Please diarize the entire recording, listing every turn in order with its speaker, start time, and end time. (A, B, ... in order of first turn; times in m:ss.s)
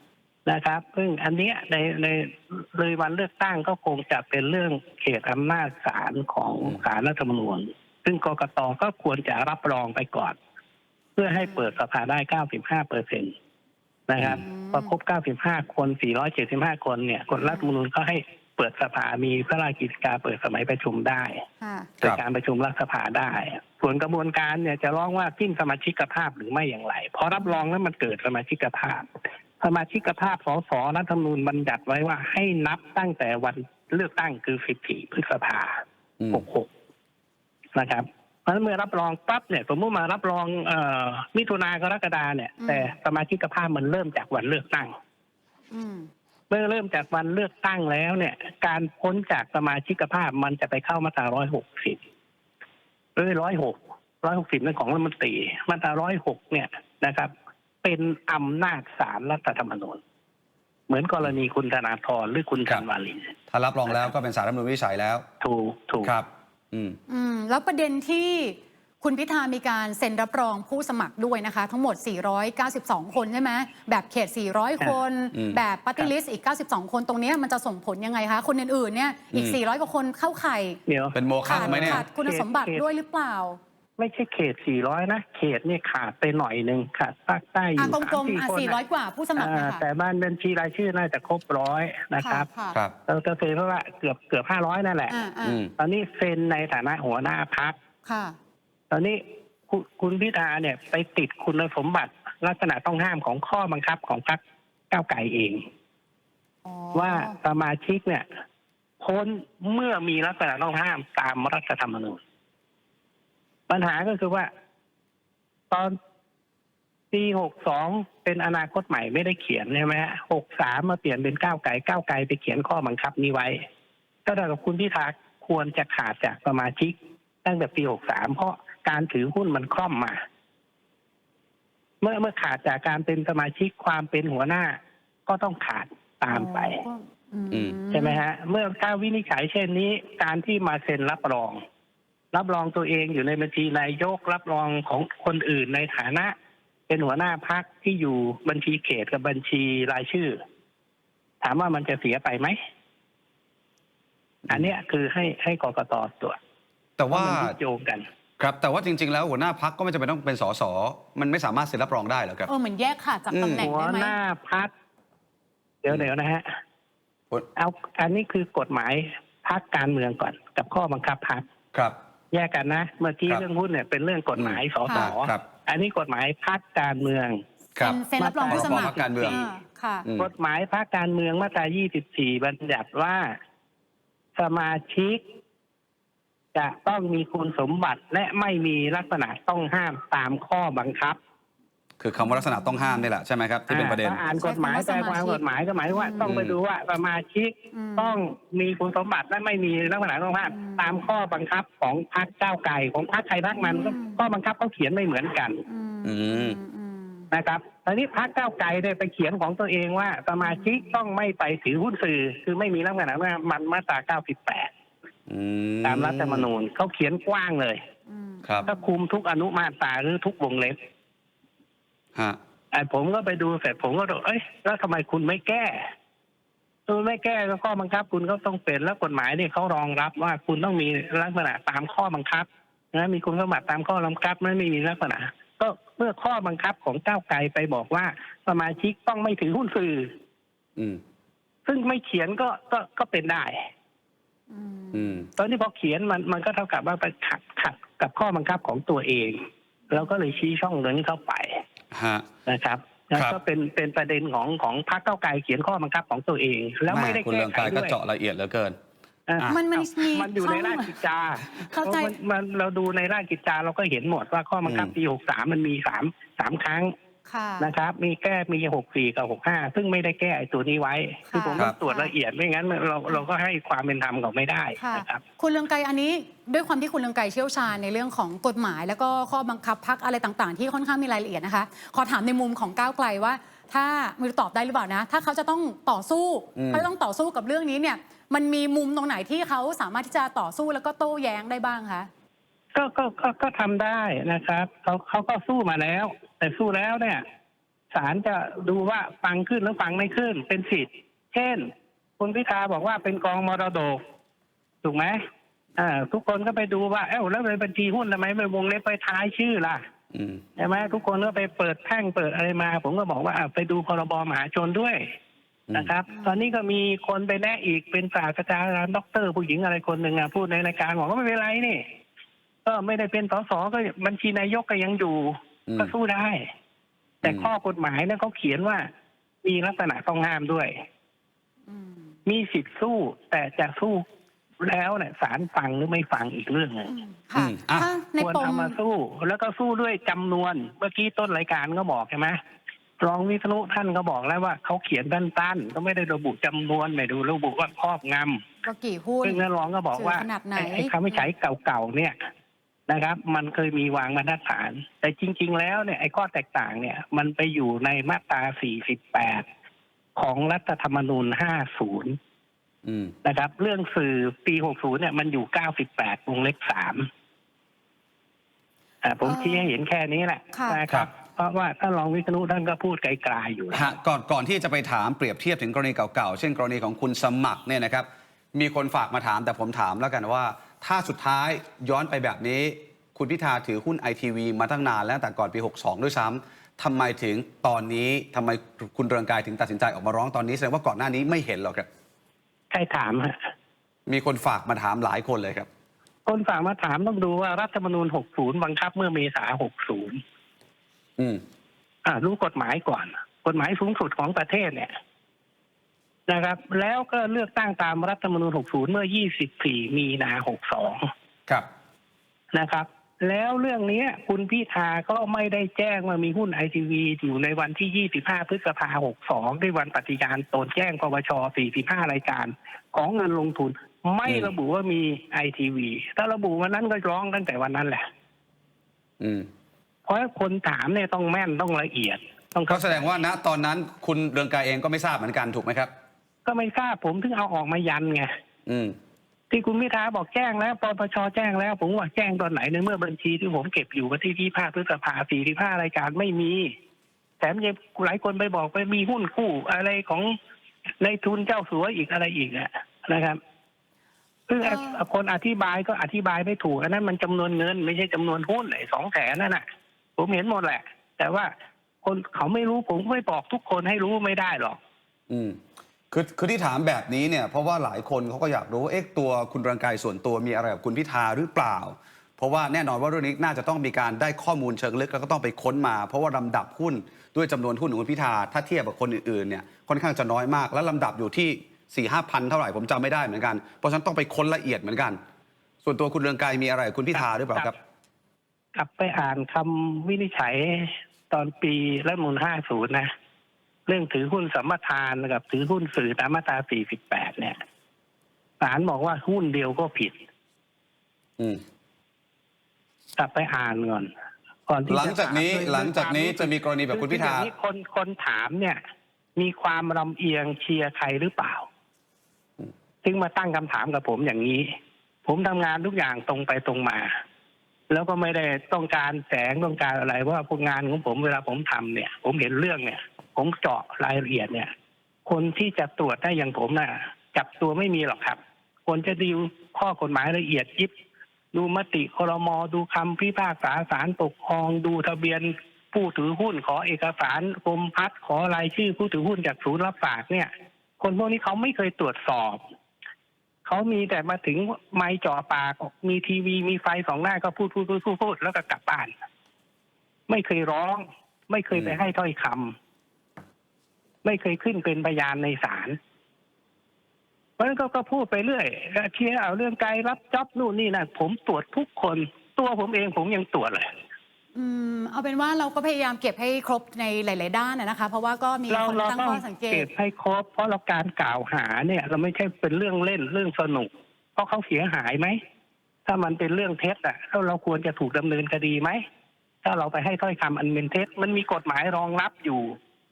0:00.5-0:10.4 A
0:11.2-0:13.3 A
0:11.4-0:11.7 B
0:14.1-0:21.4 A
0:14.3-0:14.9 B
0:17.4-0:17.7 B
0:21.6-0:21.9 B
0:22.0-0:36.7 A
0:37.8-0:44.9 A
0:42.6-0:42.9 B
0:45.7-0:46.1 B
0:46.5-0:52.0 A
0:53.2-0:57.3 A
0:57.8-1:00.0 A
1:00.9-1:03.3 A
1:03.5-1:05.2 C
1:05.4-1:06.1 A
1:06.0-1:07.0 C
1:07.1-1:20.8 B
1:15.3-1:15.6 C
1:20.9-1:22.8 A
1:21.1-1:22.0 C
1:21.5-1:23.6 B
1:24.0-1:28.8 A
1:27.8-1:29.8 B
1:29.4-1:32.5 A
1:32.2-1:32.8 B
1:33.1-1:35.2 A
1:35.1-1:35.6 B
1:35.4-1:35.7 C
1:35.8-1:37.8 A
1:38.1-1:38.4 B
1:38.9-1:45.6 A
1:46.6-1:47.4 B
1:47.0-1:48.2 A
1:49.0-1:52.2 A
1:53.7-1:54.5 A
1:55.7-1:56.0 A
1:57.1-2:03.6 A
2:04.3-2:10.2 A
2:12.0-2:16.8 A
2:16.3-2:18.2 B
2:17.9-2:21.6 A
2:22.3-2:26.3 A
2:26.9-2:30.4 A
2:31.4-2:32.6 A
2:34.5-2:36.4 A
2:37.0-2:37.6 C
2:37.1-2:38.1 A
2:38.4-2:42.5 C
2:42.5-2:44.2 B
2:43.3-2:43.7 C
2:43.5-2:44.7 A
2:45.8-2:46.6 A
2:47.6-2:51.4 A
2:52.3-2:57.4 A
2:54.4-2:55.4 C
2:57.8-2:59.4 C
2:57.8-3:00.1 B
2:58.2-2:59.4 A
3:00.0-3:00.3 C
3:00.2-3:03.4 A
3:04.4-3:05.2 A
3:06.6-3:11.2 A
3:12.0-3:14.2 C
3:12.2-3:13.1 B
3:13.7-3:25.6 A
3:14.4-3:16.3 B
3:16.2-3:16.6 C
3:17.7-3:18.2 B
3:20.5-3:20.9 B
3:23.6-3:24.2 B
3:25.7-3:27.3 B
3:26.0-3:26.6 C
3:27.3-3:34.7 A
3:30.4-3:30.8 B
3:35.3-3:36.5 C
3:35.8-3:37.8 A
3:38.1-3:38.9 B
3:38.7-3:40.8 A
3:42.7-3:45.9 A
3:46.9-4:00.1 A
4:01.7-4:03.6 A
4:04.5-4:05.2 B
4:04.9-4:05.3 C
4:05.4-4:09.4 A
4:09.9-4:11.6 A
4:11.9-4:12.3 C
4:12.5-4:18.0 A
4:16.9-4:18.8 C
4:19.3-4:26.9 A
4:19.5-4:21.0 B
4:21.5-4:22.1 B
4:24.7-4:24.9 C
4:27.3-4:27.7 B
4:27.6-4:35.2 A
4:31.3-4:32.1 B
4:34.8-4:52.1 B
4:46.6-4:46.9 C
4:52.8-4:57.2 A
4:57.9-5:04.0 A
5:04.8-5:05.2 A
5:05.8-5:09.8 A
5:10.1-5:10.4 C
5:10.6-5:15.0 A
5:15.7-5:21.8 A
5:22.6-5:26.5 A
5:25.7-5:25.9 C
5:27.2-5:28.9 A
5:27.2-5:27.5 C
5:29.4-5:30.7 A
5:31.7-5:32.0 B
5:32.3-5:34.0 A
5:34.6-5:36.9 A
5:36.9-5:38.8 B
5:37.4-5:37.9 C
5:38.2-5:42.4 A
5:43.0-5:48.4 A
5:48.6-5:51.3 B
5:49.2-5:52.2 A
5:52.9-5:59.5 A
6:00.2-6:02.2 A
6:02.8-6:03.1 C
6:03.2-6:07.1 A
6:09.0-6:13.9 A
6:09.2-6:09.7 B
6:10.5-6:10.8 B
6:13.7-6:31.9 C
6:32.7-6:33.4 A
6:34.1-6:35.7 C
6:36.3-6:40.2 A
6:42.0-6:44.9 A
6:46.3-6:51.1 A
6:52.5-7:08.0 A
7:04.3-7:04.5 C
7:09.2-7:09.5 C
7:10.1-7:13.0 A
7:12.7-7:15.9 C
7:16.5-7:18.3 A
7:18.7-7:19.0 C
7:19.5-7:26.7 A
7:27.4-7:30.4 A
7:31.0-7:33.4 A
7:34.5-7:39.6 A
7:34.6-7:35.0 B
7:40.2-7:41.5 A
7:42.0-7:44.8 A
7:45.3-7:45.6 C
7:46.1-8:05.2 C
8:05.8-8:07.8 C
8:08.8-8:13.1 A
8:13.9-8:17.6 A
8:18.6-8:20.2 A
8:23.2-8:24.1 A
8:24.7-8:28.8 A
8:24.9-8:27.5 C
8:29.4-8:31.7 A
8:33.0-8:34.7 A
8:35.2-8:37.1 A
8:37.9-8:44.7 A
8:45.3-8:50.9 A
8:51.5-9:02.6 A
9:03.7-9:09.1 A
9:10.3-9:12.8 A
9:14.2-9:16.0 A
9:17.6-9:23.9 A
9:24.6-9:29.9 B
9:28.7-9:35.4 A
9:36.1-9:39.0 A
9:39.6-9:42.8 A